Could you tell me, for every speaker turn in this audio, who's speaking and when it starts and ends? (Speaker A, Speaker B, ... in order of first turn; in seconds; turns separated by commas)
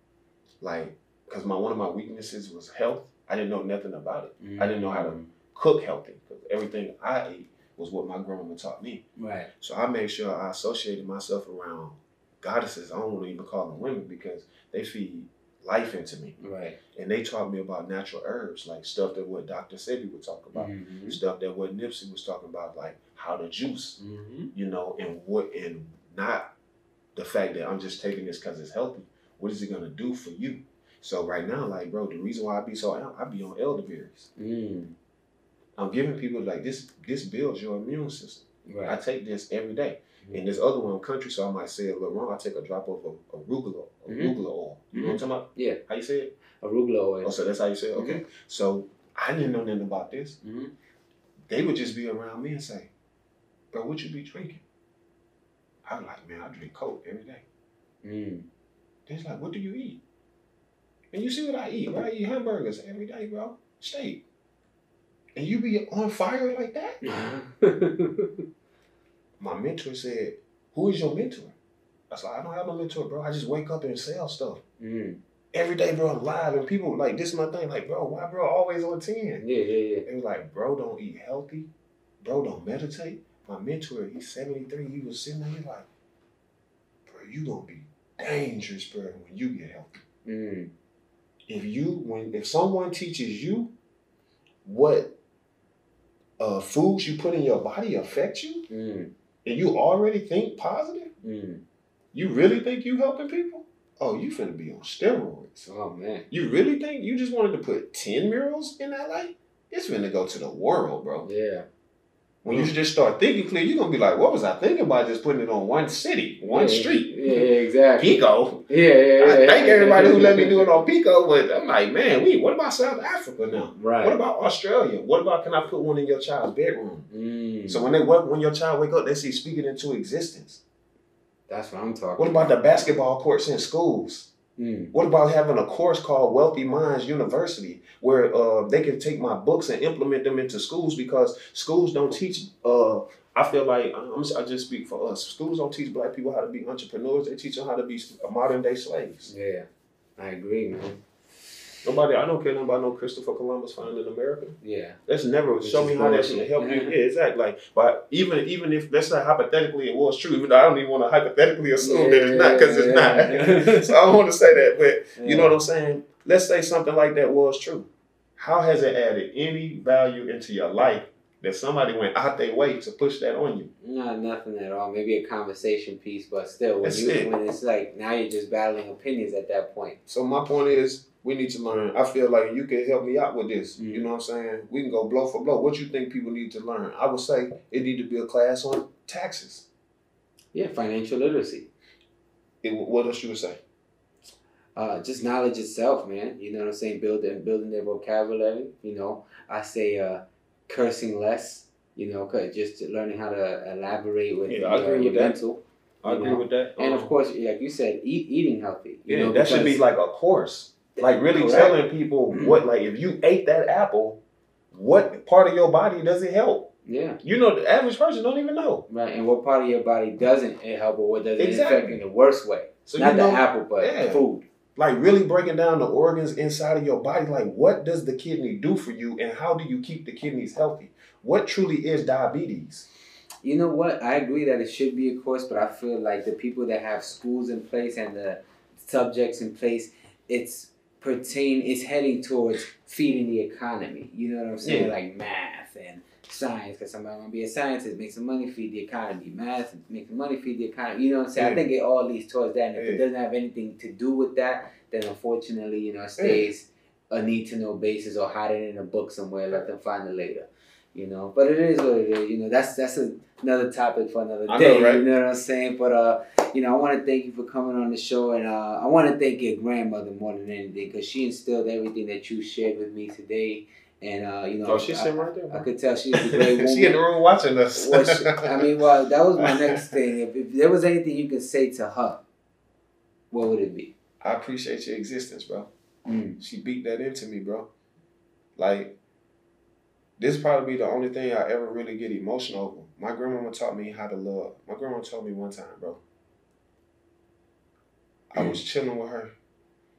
Speaker A: 0.6-9.1, Speaker B: 4.4-5.3, Speaker B: 9.2-9.5, Speaker A: 9.6-16.4, Speaker B: 16.4-16.8, Speaker A: 16.9-24.0, Speaker B: 20.5-21.2, Speaker B: 24.0-24.5, Speaker A: 24.5-26.5, Speaker A: 27.1-34.3, Speaker B: 34.4-35.0, Speaker A: 35.8-46.3, Speaker B: 38.7-39.0, Speaker B: 40.2-40.5, Speaker B: 44.1-44.4, Speaker B: 44.9-45.8, Speaker B: 46.6-47.3, Speaker A: 47.2-50.4, Speaker B: 48.0-48.2, Speaker B: 50.4-50.7, Speaker A: 51.5-52.9, Speaker A: 53.7-54.6, Speaker A: 55.9-57.4, Speaker B: 58.0-58.5, Speaker A: 59.1-60.0, Speaker A: 61.1-64.2, Speaker A: 65.3-67.0, Speaker B: 67.0-68.3, Speaker A: 69.4-71.5, Speaker A: 72.1-74.6, Speaker B: 74.8-75.2, Speaker A: 75.5-79.4, Speaker B: 79.4-80.0, Speaker A: 80.0-81.7, Speaker A: 82.2-85.9, Speaker A: 87.1-90.0, Speaker B: 90.2-90.7, Speaker A: 91.5-93.7, Speaker A: 94.7-95.2, Speaker A: 96.4-98.7, Speaker B: 98.7-99.1, Speaker A: 99.5-101.1, Speaker B: 101.2-101.6, Speaker A: 102.1-105.7, Speaker B: 105.7-106.3, Speaker A: 106.3-111.3, Speaker B: 111.2-111.7, Speaker A: 112.4-118.7, Speaker B: 116.5-120.7, Speaker A: 119.2-127.1, Speaker B: 123.8-124.2, Speaker B: 127.1-127.9, Speaker A: 127.7-130.6, Speaker B: 131.5-132.6, Speaker A: 132.2-134.3, Speaker B: 134.6-134.9, Speaker A: 134.9-149.3, Speaker B: 149.3-149.7, Speaker B: 150.2-151.0, Speaker A: 151.8-173.7, Speaker B: 154.6-155.0, Speaker B: 155.6-156.9, Speaker B: 161.8-164.0, Speaker B: 165.2-165.6, Speaker B: 173.8-180.0, Speaker A: 176.8-177.3, Speaker A: 180.1-189.7, Speaker B: 183.8-184.1, Speaker B: 190.5-191.7, Speaker A: 192.6-193.6, Speaker B: 194.8-209.8, Speaker A: 204.5-205.4, Speaker A: 206.0-207.2, Speaker A: 209.1-214.2, Speaker B: 211.0-211.8, Speaker B: 212.3-212.6, Speaker A: 214.7-216.7, Speaker B: 216.9-217.2, Speaker A: 217.2-218.8, Speaker B: 218.9-224.4, Speaker A: 221.4-222.0, Speaker A: 222.9-224.2, Speaker A: 224.8-232.9, Speaker B: 233.4-277.0, Speaker A: 244.6-244.9, Speaker A: 251.4-251.7, Speaker A: 252.8-253.1, Speaker A: 256.2-256.5, Speaker A: 264.5-265.1, Speaker A: 274.6-275.7, Speaker A: 276.2-278.8, Speaker B: 277.8-282.2, Speaker A: 279.4-279.8, Speaker B: 283.3-283.9, Speaker A: 284.2-285.7, Speaker B: 286.1-286.4, Speaker A: 286.4-287.7, Speaker A: 288.6-289.0, Speaker A: 290.2-296.0, Speaker A: 298.3-299.3